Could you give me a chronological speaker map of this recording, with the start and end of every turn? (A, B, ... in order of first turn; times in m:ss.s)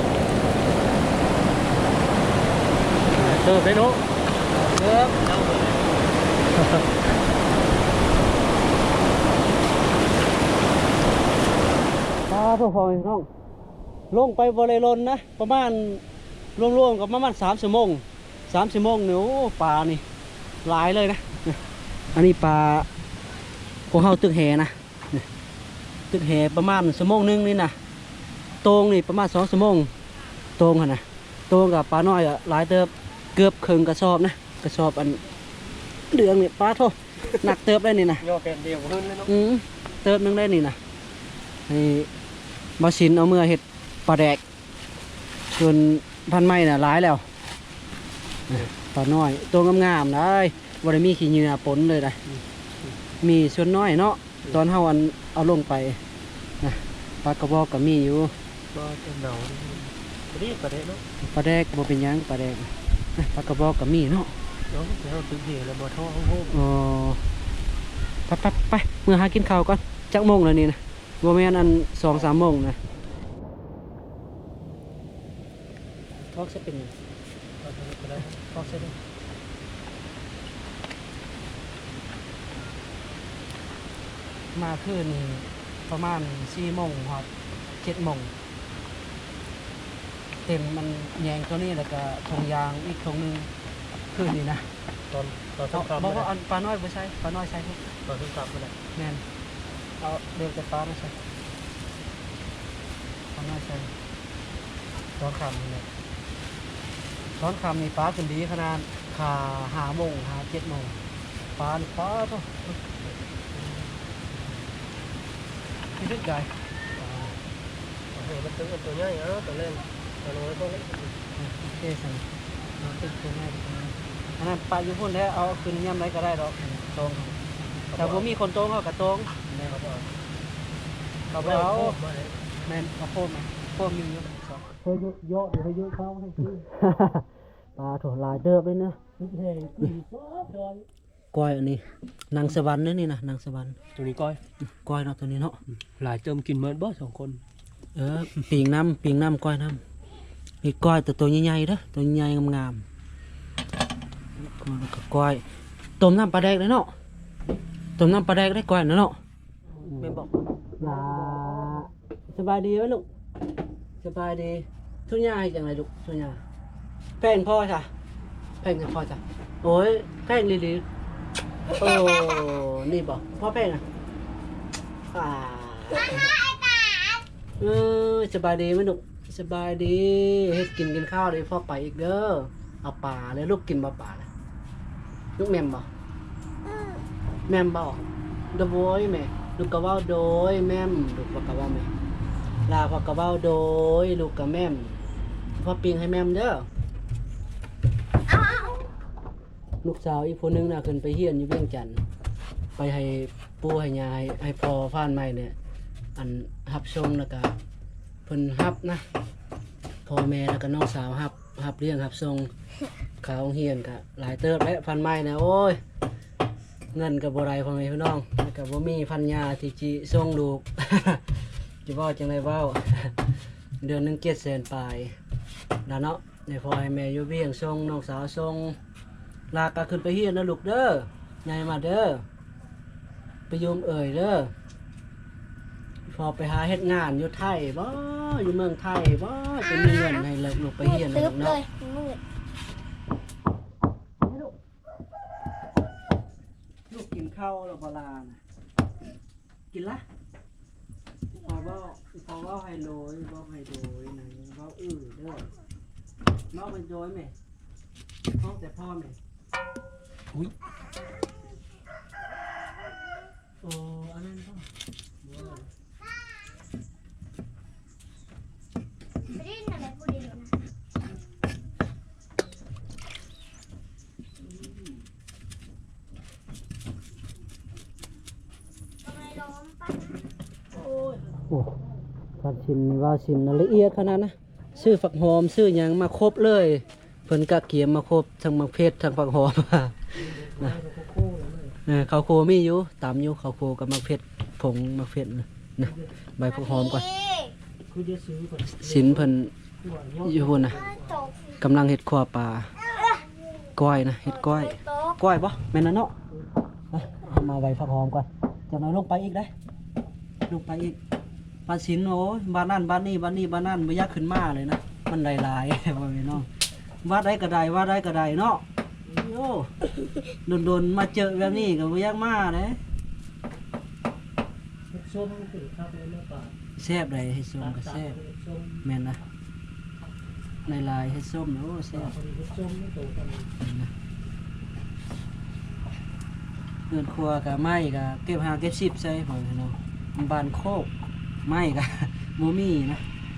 0:03.2-0:04.0 A
0:04.5-0:05.2 B
0:05.2-0:05.9 A
0:06.5-0:06.8 A
0:12.3-0:13.3 B
0:14.1-0:16.0 B
0:16.6-0:20.0 B
0:20.6-0:21.6 B
0:22.1-0:22.9 B
0:23.9-0:25.3 B
0:26.1-0:27.8 B
0:28.6-0:29.9 B
0:30.6-0:35.2 B
0:36.1-0:38.2 B
0:38.2-0:39.3 A
0:39.3-0:40.8 B
0:41.7-0:42.1 B
0:42.8-0:44.4 B
0:45.5-0:47.2 B
0:48.5-0:52.2 B
0:52.2-0:53.0 A
0:53.2-0:56.0 B
0:56.6-0:58.3 B
0:58.7-1:01.0 A
1:01.2-1:04.3 B
1:04.7-1:06.6 A
1:06.5-1:07.2 B
1:08.3-1:12.8 B
1:16.3-1:16.9 B
1:17.6-1:18.9 A
1:18.5-1:18.9 B
1:24.5-1:27.3 B
1:27.8-1:28.3 B
1:30.4-1:33.5 B
1:34.1-1:34.7 B
1:35.1-1:36.3 A
1:35.7-1:37.8 B
1:38.0-1:38.8 A
1:38.9-1:39.2 B
1:40.0-1:41.2 B
1:43.3-1:43.9 B
1:45.2-1:45.9 B
1:47.4-1:51.0 B
1:51.6-1:52.8 B
1:56.0-1:57.3 B
1:58.1-2:01.2 A
2:01.4-2:07.4 B
2:07.9-2:08.3 A
2:08.0-2:09.5 B
2:09.5-2:10.1 A
2:11.3-2:12.0 B
2:11.3-2:12.5 A
2:12.6-2:14.8 B
2:14.8-2:16.7 A
2:16.7-2:19.0 B
2:19.2-2:20.8 A
2:21.3-2:23.8 B
2:24.0-2:24.4 A
2:24.8-2:25.6 B
2:25.7-2:27.4 A
2:27.9-2:29.8 B
2:30.6-2:32.8 B
2:34.4-2:35.4 B
2:36.0-2:36.9 B
2:38.0-2:39.2 B
2:39.8-2:40.5 A
2:40.8-2:43.0 B
2:44.0-2:46.4 B
2:47.2-2:47.9 B
2:48.6-2:50.8 B
2:51.7-2:53.8 B
2:55.1-2:56.3 B
2:57.6-3:04.3 B
3:05.4-3:05.9 B
3:07.5-3:11.9 B
3:12.7-3:15.0 B
3:15.6-3:16.7 B
3:19.8-3:22.0 B
3:22.8-3:25.5 B
3:26.1-3:27.6 B
3:28.2-3:29.0 B
3:30.0-3:32.5 B
3:33.2-3:35.8 B
3:36.9-3:41.2 B
3:41.8-3:43.2 B
3:43.8-3:45.2 B
3:45.8-3:48.8 B
3:49.5-3:52.2 B
3:53.5-3:54.5 B
3:56.1-4:01.7 B
4:01.6-4:02.2 C
4:04.2-4:04.5 B
4:06.9-4:08.4 B
4:09.7-4:10.0 B
4:11.3-4:15.5 B
4:16.5-4:17.3 B
4:18.4-4:19.2 B
4:23.6-4:24.7 B
4:25.2-4:25.7 A
4:29.4-4:30.5 C
4:39.1-4:40.0 C
4:40.9-4:41.2 A
4:41.4-4:41.7 B
4:42.4-4:50.7 B
4:50.1-4:51.8 A
4:51.8-4:57.3 B
4:55.8-4:56.1 A
4:57.9-5:01.3 A
4:58.8-4:59.5 B
5:00.2-5:00.8 B
5:01.4-5:03.1 B
5:03.7-5:06.1 B
5:06.9-5:09.5 B
5:10.4-5:11.0 B
5:11.6-5:16.5 B
5:17.0-5:19.7 B
5:20.4-5:22.8 B
5:24.9-5:26.6 A
5:26.8-5:28.2 B
5:27.6-5:28.8 A
5:28.8-5:29.2 B
5:30.6-5:32.1 B
5:31.9-5:33.5 A
5:33.6-5:33.9 B
5:36.9-5:40.9 B
5:41.4-5:43.0 B